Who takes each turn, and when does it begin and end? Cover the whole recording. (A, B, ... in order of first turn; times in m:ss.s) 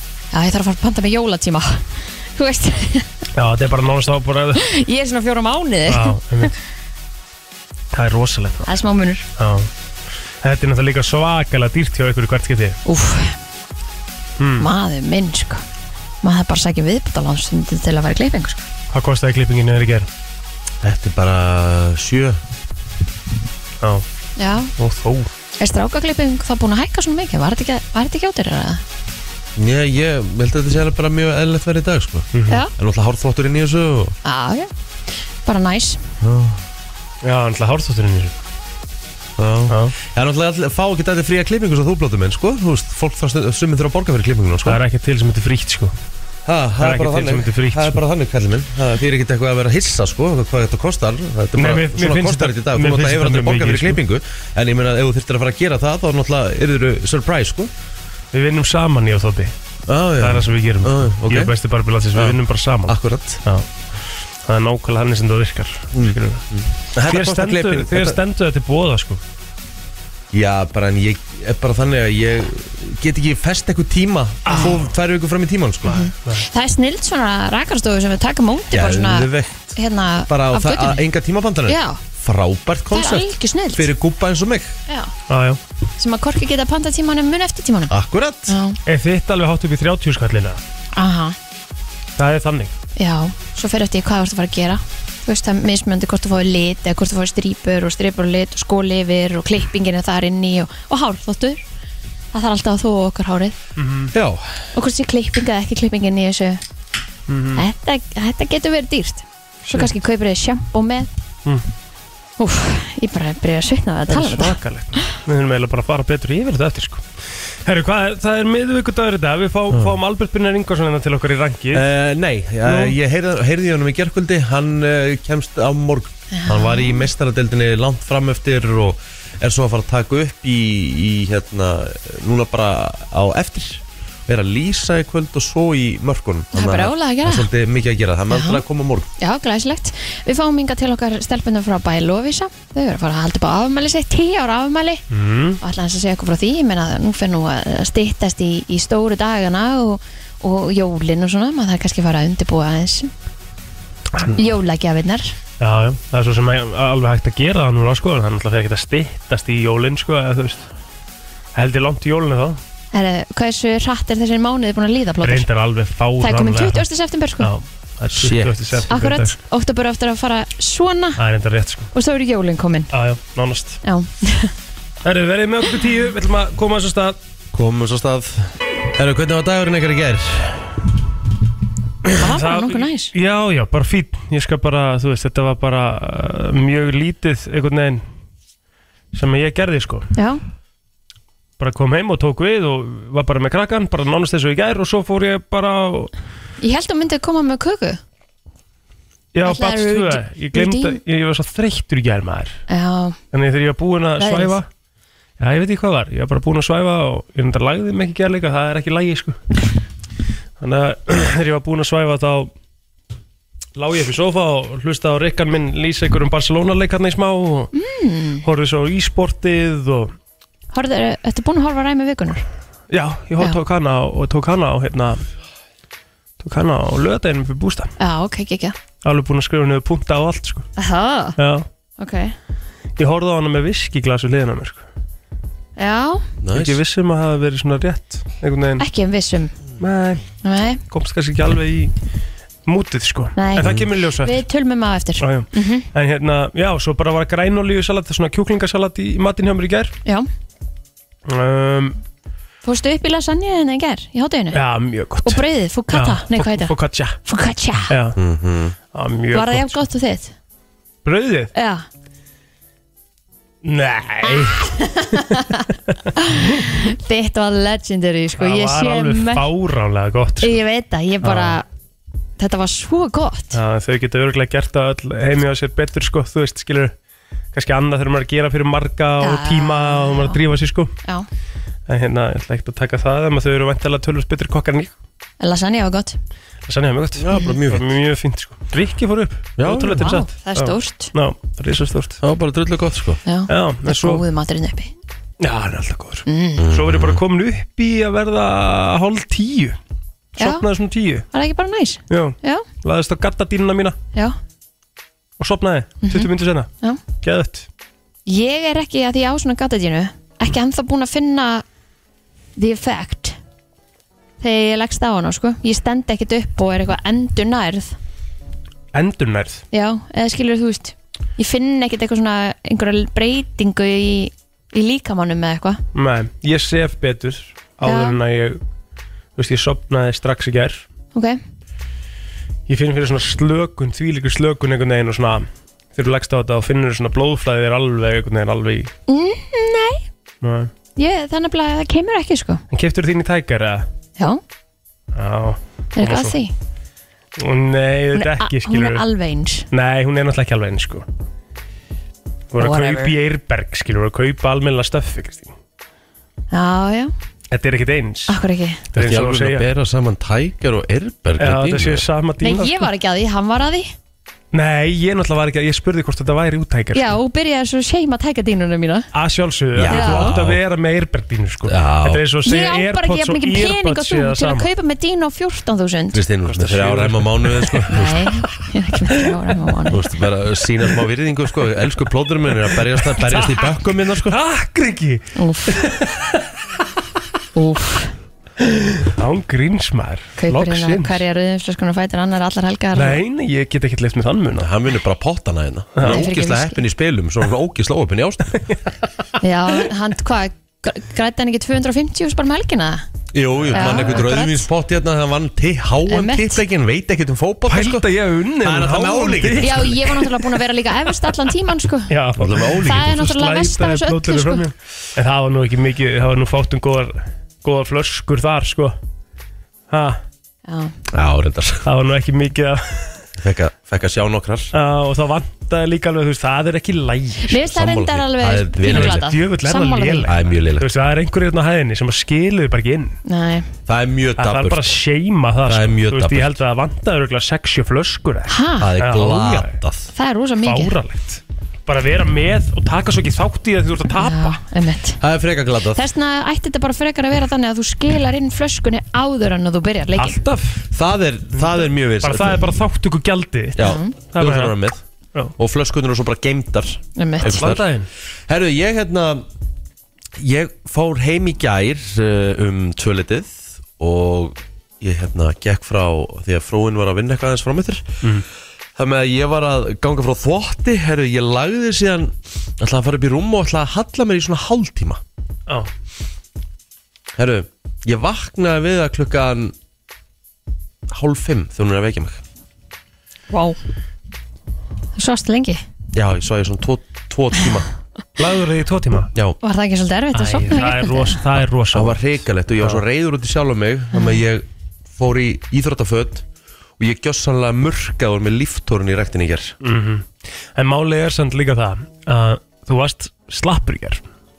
0:00.3-0:03.1 A
0:03.3-0:04.7 B
0:04.6-0:06.5 A
0:05.9-0:06.5 B
0:07.9-0:08.7 B
0:08.6-0:09.2 A
0:09.4-0:09.7 B
0:10.4-0:12.8 B
0:12.8-0:13.4 A
0:14.4-0:14.7 B
0:14.6-0:15.6 A
0:16.2-0:18.7 A
0:18.9-0:20.1 B
0:20.8-0:22.4 C
0:24.4-0:24.7 A
0:24.8-0:25.3 B
0:25.6-0:28.8 A
0:29.6-0:34.2 C
0:32.3-0:32.6 B
0:34.2-0:34.7 A
0:35.4-0:36.0 A
0:36.2-0:36.6 C
0:37.2-0:38.3 B
0:39.4-0:44.8 C
0:39.7-0:39.9 B
0:44.6-0:45.9 B
0:46.4-0:57.7 C
0:46.8-0:48.0 B
0:51.6-0:54.0 B
0:58.3-0:59.5 B
0:59.9-1:01.5 C
1:00.2-1:03.6 B
1:02.1-1:03.4 C
1:04.4-1:06.4 B
1:05.9-1:08.2 C
1:07.0-1:09.2 B
1:10.3-1:16.0 C
1:14.4-1:14.9 B
1:14.5-1:14.8 A
1:15.8-1:21.1 A
1:15.9-1:16.4 B
1:18.7-1:24.8 C
1:21.6-1:22.0 A
1:22.9-1:23.9 A
1:25.3-1:25.6 B
1:26.0-1:27.9 A
1:27.9-1:28.6 C
1:28.5-1:28.8 A
1:28.8-1:30.6 B
1:30.9-1:31.4 A
1:32.2-1:32.7 B
1:33.0-1:41.6 A
1:42.3-1:43.6 A
1:43.8-1:44.1 B
1:44.1-1:44.6 C
1:44.7-1:46.6 A
1:47.3-1:47.6 B
1:47.6-1:51.1 A
1:52.4-1:54.6 A
1:54.1-1:57.0 B
1:57.6-2:01.8 B
2:01.7-2:19.1 C
2:02.6-2:03.0 B
2:06.3-2:07.1 A
2:16.5-2:17.5 A
2:18.3-2:18.6 A
2:19.2-2:25.0 A
2:25.1-2:25.6 B
2:25.6-2:33.1 A
2:34.3-2:35.3 A
2:35.6-2:40.6 B
2:41.5-2:42.6 B
2:42.9-2:45.5 A
2:45.2-2:46.9 B
2:46.2-2:47.5 A
2:47.4-2:49.4 B
2:48.1-2:48.9 C
2:48.9-2:51.2 A
2:51.2-2:51.9 B
2:51.9-2:52.9 A
2:52.9-2:53.8 B
2:53.8-2:54.5 A
2:55.0-2:57.2 B
2:57.5-3:00.8 C
3:02.0-3:08.0 B
3:02.2-3:03.1 A
3:09.1-3:10.1 B
3:10.2-3:10.4 A
3:11.6-3:16.1 B
3:16.6-3:18.0 A
3:19.3-3:22.6 B
3:19.4-3:21.0 A
3:22.7-3:23.2 A
3:23.3-3:24.7 B
3:24.2-3:24.6 A
3:25.4-3:29.4 B
3:30.6-3:32.5 B
3:33.8-3:37.7 B
3:37.7-3:38.4 A
3:38.4-3:40.1 B
3:40.7-3:42.4 A
3:42.9-3:45.2 B
3:46.4-3:47.9 B
3:48.0-3:48.8 A
3:49.0-3:50.7 B
3:50.8-3:51.4 A
3:51.4-3:51.7 B
3:52.0-3:52.3 A
3:53.0-3:54.8 B
3:55.8-3:56.2 A
3:56.4-3:56.8 C
3:56.5-3:58.8 B
3:58.8-3:59.5 A
3:59.8-4:00.2 B
4:00.4-4:00.8 A
4:00.9-4:01.9 B
4:02.6-4:04.4 B
4:03.4-4:05.9 A
4:05.2-4:09.9 B
4:11.3-4:12.0 B
4:12.6-4:14.6 A
4:14.5-4:17.2 B
4:15.2-4:16.7 A
4:17.2-4:17.9 A
4:17.9-4:18.2 B
4:18.2-4:18.8 C
4:18.9-4:19.8 B
4:19.3-4:20.3 A
4:21.0-4:21.5 B
4:21.5-4:21.9 A
4:23.6-4:25.4 B
4:24.2-4:29.4 A
4:28.4-4:30.6 B
4:30.4-4:31.6 A
4:31.2-4:31.6 B
4:32.4-4:33.6 A
4:33.5-4:36.9 B
4:37.5-4:40.9 B
4:39.2-4:40.4 A
4:41.9-4:44.9 B
4:45.4-4:46.2 A
4:46.7-4:52.2 B
4:47.2-4:47.9 C
4:49.6-4:50.2 C
4:50.0-4:51.1 A
4:52.2-4:53.2 C
4:53.2-4:54.9 A
4:53.5-4:54.2 B
4:55.4-4:59.8 B
4:56.2-4:56.6 A
4:56.6-4:57.2 C
5:00.4-5:00.6 A
5:00.4-5:01.3 B
5:01.3-5:02.6 A
5:02.1-5:04.0 B
5:05.4-5:07.7 B
5:06.0-5:07.0 A
5:08.2-5:11.6 A
5:12.6-5:13.4 A
5:14.4-5:18.0 A
5:18.9-5:19.6 B
5:19.7-5:25.8 A
5:25.9-5:28.6 B
5:27.8-5:28.2 A
5:29.4-5:30.8 B
5:31.1-5:31.4 A
5:32.7-5:38.9 B
5:39.1-5:40.0 A
5:40.4-5:40.7 B
5:41.0-5:42.6 A
5:42.7-5:43.8 B
5:45.1-5:46.4 B
5:46.0-5:46.5 A
5:47.4-5:49.0 B
5:48.1-5:49.7 A
5:49.7-5:51.0 B
5:52.5-5:55.5 B
5:52.6-5:53.1 A
5:56.5-5:57.1 A
5:57.5-5:58.3 B
5:58.3-5:58.8 A
5:58.9-5:59.7 B
5:59.0-6:02.1 C
6:01.4-6:02.9 B
6:02.4-6:03.9 A
6:04.5-6:07.2 B
6:06.9-6:09.1 A
6:09.1-6:14.7 B
6:09.7-6:10.6 C
6:09.9-6:10.3 A
6:11.7-6:12.2 C
6:12.4-6:16.2 A
6:16.1-6:18.3 C
6:16.5-6:18.3 B
6:17.9-6:20.0 A
6:19.9-6:24.4 C
6:22.6-6:23.7 B
6:24.2-6:26.4 B
6:25.4-6:25.8 A
6:27.5-6:28.1 A
6:28.6-6:31.2 B
6:30.4-6:33.2 A
6:32.9-6:34.7 B
6:34.5-6:38.6 C
6:36.0-6:36.2 B
6:36.0-6:36.8 A
6:38.6-6:38.9 B
6:39.4-6:43.0 A
6:43.3-6:48.1 C
6:43.7-6:44.7 A
6:43.7-6:44.1 B
6:46.1-6:46.6 A
6:47.7-6:50.3 B
6:48.6-6:50.0 C
6:49.6-6:54.6 A
6:52.1-6:59.0 B
6:52.4-6:53.1 C
6:59.9-7:00.2 B
7:00.6-7:00.9 A
7:01.1-7:01.9 C
7:01.8-7:03.2 B
7:03.4-7:04.7 C
7:04.7-7:07.6 B
7:07.5-7:10.3 A
7:07.5-7:09.3 C
7:08.8-7:13.2 B
7:10.2-7:10.9 C
7:13.2-7:13.7 A
7:13.9-7:14.8 C
7:14.4-7:19.7 B
7:15.6-7:16.6 C
7:18.5-7:18.9 A
7:18.8-7:20.0 C
7:20.1-7:20.9 A
7:20.6-7:24.6 B
7:24.1-7:25.2 A
7:25.2-7:26.0 C
7:25.9-7:30.4 A
7:30.2-7:30.9 B
7:30.9-7:32.6 C
7:31.6-7:34.8 B
7:33.8-7:35.0 C
7:33.8-7:34.1 A
7:35.6-7:37.8 C
7:37.2-7:37.6 A
7:37.4-7:38.1 B
7:38.5-7:39.4 C
7:40.4-7:48.2 C
7:49.0-7:55.2 C
7:57.4-7:59.7 C
8:01.1-8:02.4 C
8:03.5-8:03.8 A
8:05.2-8:05.8 A
8:06.1-8:07.9 C
8:08.4-8:09.3 B
8:09.6-8:11.4 A
8:10.3-8:13.0 B
8:11.9-8:16.4 C
8:17.0-8:19.8 C
8:19.8-8:24.2 B